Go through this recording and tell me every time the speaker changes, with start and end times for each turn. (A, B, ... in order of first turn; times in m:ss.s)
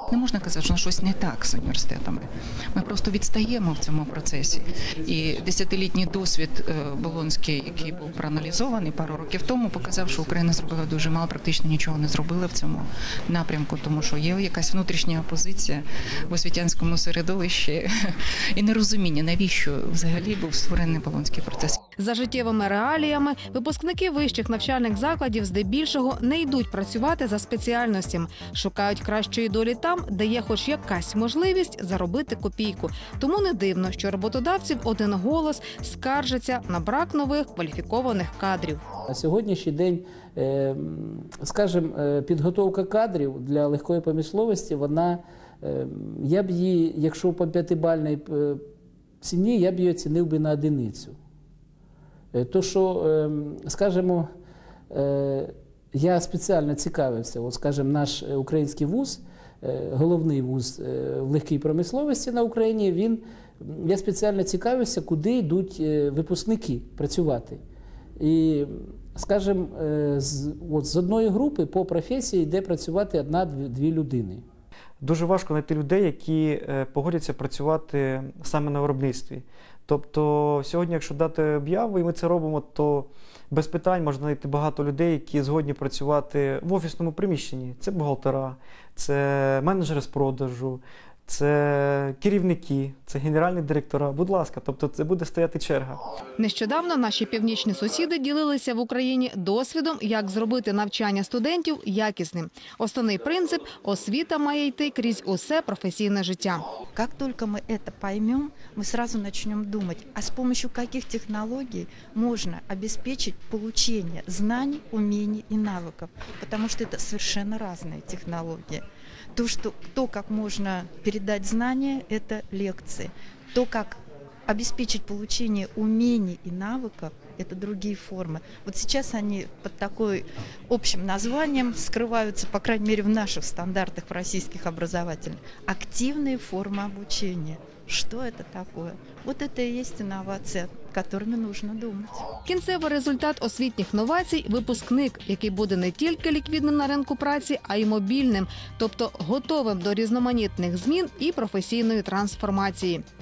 0:00.1-0:17.9 A
0:18.5-0:21.8 A
0:22.0-0:38.8 B
0:39.1-0:48.6 C
0:49.2-0:51.2 C
0:52.3-0:54.3 C
0:54.9-1:07.6 C
1:08.2-1:14.4 C
1:15.0-1:36.0 D
1:36.4-1:46.6 B
1:46.9-2:22.2 E
2:22.4-2:33.0 B